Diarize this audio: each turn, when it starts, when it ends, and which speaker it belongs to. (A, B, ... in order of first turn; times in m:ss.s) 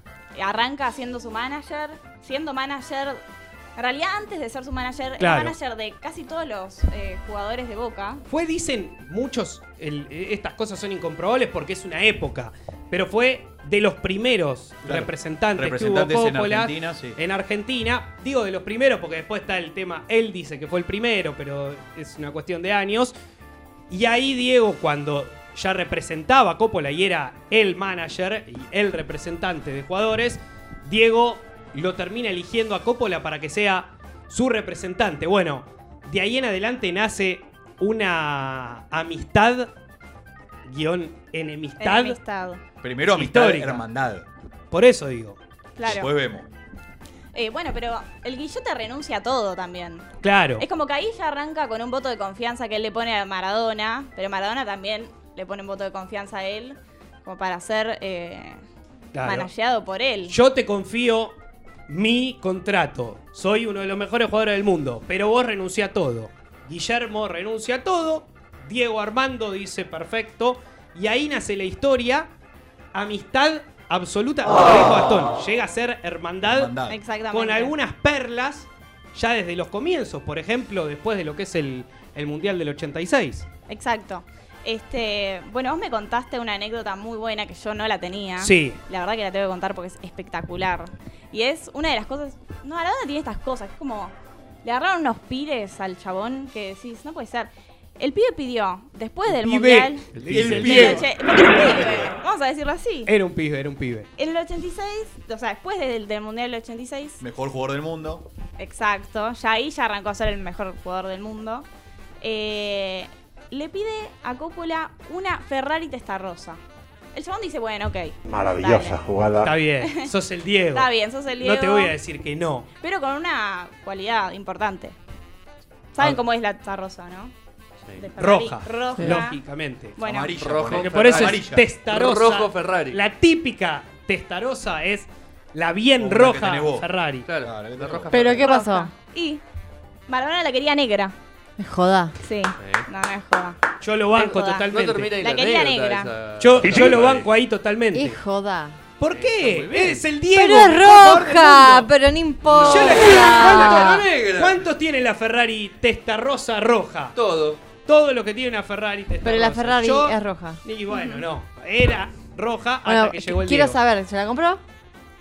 0:00.4-0:03.2 A
0:03.8-0:08.2 A
0:05.2-0:05.6 B
0:08.3-0:23.1 B
0:14.8-0:17.2 C
0:23.9-0:39.7 B
0:40.7-0:42.2 B
0:41.8-0:42.6 A
0:42.8-0:44.3 C
0:43.1-0:43.8 B
0:44.7-0:45.4 B
0:45.8-0:46.1 A
0:45.8-0:46.5 C
0:47.3-0:58.6 A
0:50.2-0:50.6 B
0:59.1-0:59.5 B
0:59.2-1:00.4 A
1:00.3-1:01.3 B
1:01.9-1:12.3 B
1:12.9-1:16.8 B
1:16.4-1:17.0 C
1:16.9-1:17.7 A
1:17.3-1:23.5 B
1:23.7-1:43.1 A
1:28.4-1:28.8 B
1:39.3-1:41.0 B
1:40.2-1:40.8 D
1:40.3-1:42.1 C
1:43.1-1:44.1 B
1:44.2-1:47.2 A
1:47.2-1:48.2 C
1:48.6-1:51.6 A
1:52.2-1:56.6 A
1:57.1-1:59.2 A
1:59.4-2:02.7 B
1:59.8-2:00.1 A
2:00.7-2:02.0 A
2:02.8-2:05.0 A
2:05.9-2:07.3 A
2:08.0-2:09.4 A
2:08.2-2:10.0 B
2:10.0-2:10.4 A
2:10.0-2:11.7 C
2:10.4-2:13.0 D
2:10.7-2:17.3 B
2:16.0-2:16.9 C
2:17.2-2:18.5 D
2:17.4-2:18.3 C
2:18.1-2:18.9 E
2:18.4-2:19.4 A
2:20.1-2:21.1 A
2:21.6-2:22.1 E
2:22.2-2:23.6 A
2:22.6-2:22.8 D
2:23.8-2:25.1 B
2:24.2-2:27.3 D
2:24.3-2:24.7 A
2:25.2-2:26.1 A
2:26.4-2:28.2 B
2:27.9-2:28.8 E
2:29.0-2:31.9 B
2:29.1-2:30.0 D
2:30.3-2:34.1 E
2:32.5-2:34.6 D
2:32.5-2:37.2 B
2:37.2-2:37.6 D
2:37.8-2:43.8 B
2:39.2-2:40.6 E
2:40.9-2:41.2 A
2:42.8-2:44.6 E